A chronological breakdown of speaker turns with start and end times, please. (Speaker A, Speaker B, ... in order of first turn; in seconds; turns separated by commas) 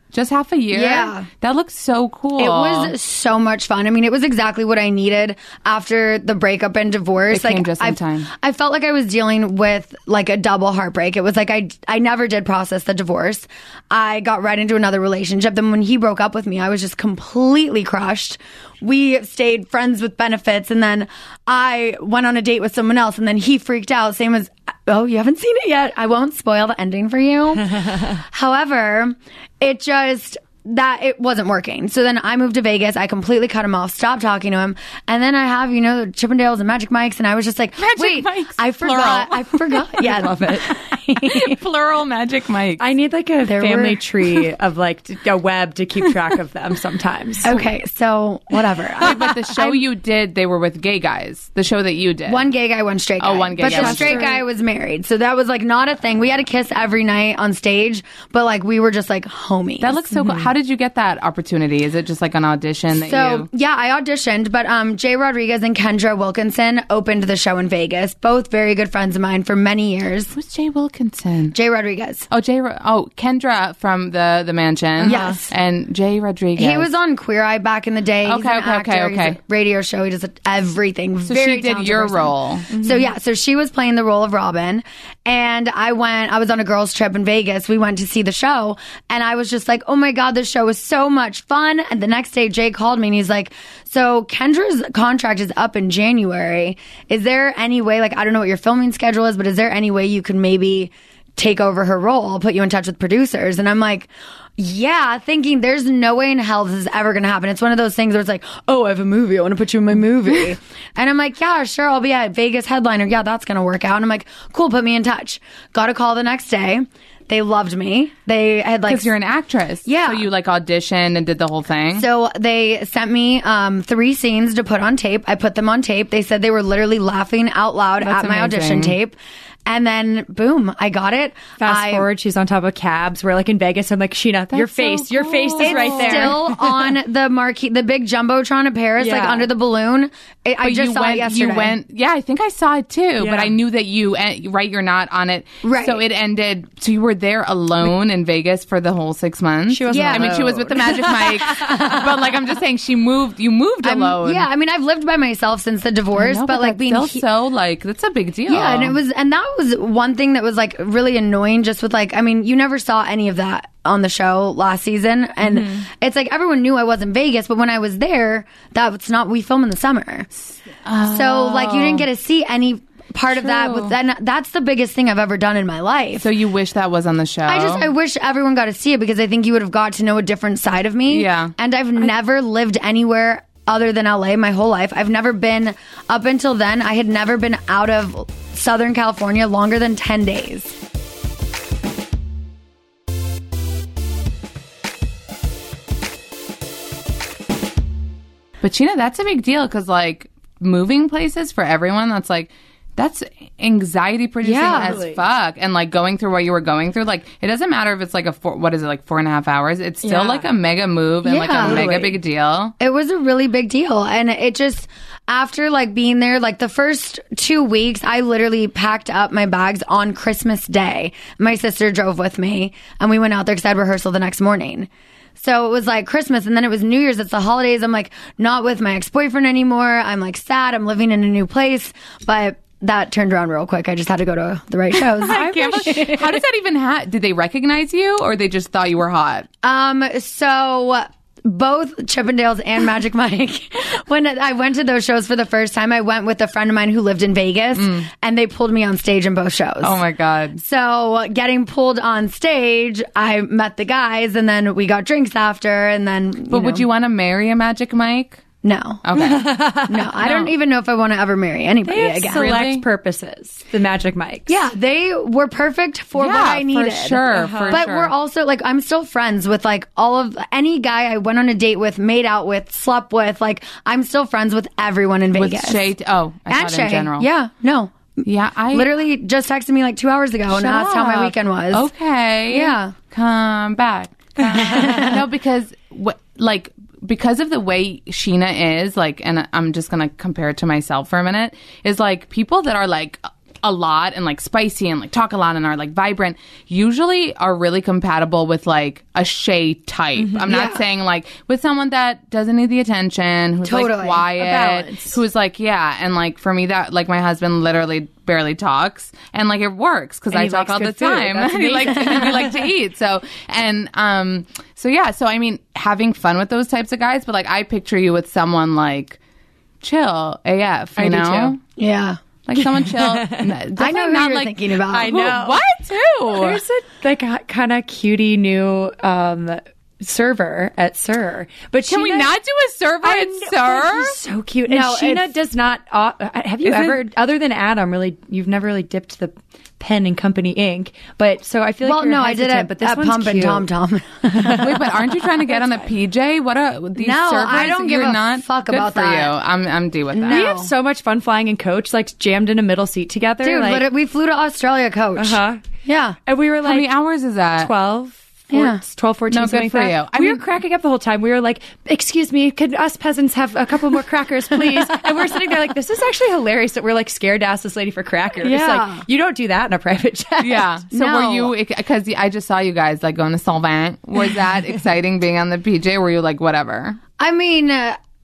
Speaker A: 0.1-2.9, Speaker B: 0.7-1.3, Speaker B: 2.4-41.6, Speaker A: 7.3-8.3, Speaker A: 37.8-39.8, Speaker C: 40.0-40.6, Speaker A: 41.3-42.9, Speaker C: 42.8-47.5, Speaker B: 43.5-44.0, Speaker B: 47.5-49.2, Speaker C: 49.0-49.4, Speaker A: 49.0-52.5, Speaker B: 52.3-60.0, Speaker A: 53.2-54.2, Speaker C: 53.6-54.4, Speaker A: 59.8-63.5, Speaker C: 60.2-60.5, Speaker B: 62.9-70.3, Speaker A: 70.3-71.5, Speaker B: 71.5-72.3, Speaker A: 72.3-76.9, Speaker C: 75.0-75.4, Speaker B: 75.0-75.5, Speaker B: 76.6-119.1, Speaker A: 78.2-79.4, Speaker A: 81.3-82.7, Speaker C: 82.7-83.1, Speaker A: 118.9-122.1, Speaker B: 119.8-120.3, Speaker B: 122.0-132.1, Speaker A: 128.0-129.0, Speaker C: 131.6-136.9, Speaker A: 134.5-136.4, Speaker B: 135.6-141.8, Speaker C: 139.0-139.5, Speaker A: 140.6-154.5, Speaker C: 143.2-143.5, Speaker B: 145.6-146.0, Speaker C: 149.7-152.0, Speaker B: 149.9-150.4, Speaker B: 153.8-157.2, Speaker A: 156.1-159.0, Speaker B: 158.5-170.3, Speaker C: 165.4-165.8, Speaker A: 170.5-172.1, Speaker B: 171.1-176.3, Speaker A: 173.3-173.9, Speaker A: 176.2-177.9, Speaker B: 177.5-190.8, Speaker A: 181.1-181.5, Speaker A: 198.6-212.8, Speaker B: 204.4-205.0, Speaker C: 204.6-205.2, Speaker C: 210.0-210.5, Speaker B: 211.2-211.9, Speaker C: 211.5-212.2, Speaker B: 212.8-236.3, Speaker A: 235.2-239.5, Speaker C: 235.3-236.2, Speaker B: 239.6-250.0, Speaker A: 247.8-248.1, Speaker A: 249.8-250.6, Speaker B: 250.6-256.9, Speaker A: 256.5-258.4, Speaker B: 258.6-259.0, Speaker A: 259.0-259.5, Speaker C: 259.2-260.1, Speaker B: 259.9-262.5, Speaker A: 260.2-260.5, Speaker C: 261.9-264.6, Speaker A: 262.3-262.9, Speaker B: 264.5-275.9, Speaker A: 266.2-268.1, Speaker C: 267.3-267.8, Speaker A: 275.4-277.3, Speaker B: 276.5-281.9, Speaker A: 278.2-278.9, Speaker A: 280.5-319.2, Speaker B: 282.5-282.9, Speaker C: 284.5-285.1, Speaker B: 284.7-285.2, Speaker C: 300.2-300.5, Speaker B: 300.5-300.8, Speaker B: 303.6-304.2, Speaker C: 304.4-305.2, Speaker C: 310.3-312.6, Speaker A: 319.8-321.6, Speaker C: 321.0-321.6, Speaker B: 321.8-322.2, Speaker A: 322.5-326.6, Speaker C: 322.6-323.5, Speaker B: 323.8-325.1, Speaker C: 324.9-325.6, Speaker C: 326.3-332.3, Speaker A: 331.9-334.2, Speaker C: 333.0-343.7, Speaker B: 334.7-335.3, Speaker A: 336.6-337.0, Speaker B: 341.8-344.7, Speaker C: 344.3-344.9, Speaker A: 344.6-350.6, Speaker C: 345.5-345.9, Speaker B: 347.0-349.3, Speaker B: 350.1-350.7, Speaker C: 350.2-353.9, Speaker B: 353.4-356.2, Speaker C: 355.2-355.6, Speaker C: 356.3-356.9, Speaker A: 356.6-357.7, Speaker C: 357.6-370.7, Speaker B: 358.5-358.8, Speaker A: 359.3-360.4, Speaker B: 368.4-369.0, Speaker A: 370.4-377.0, Speaker B: 370.9-371.5, Speaker B: 377.2-378.0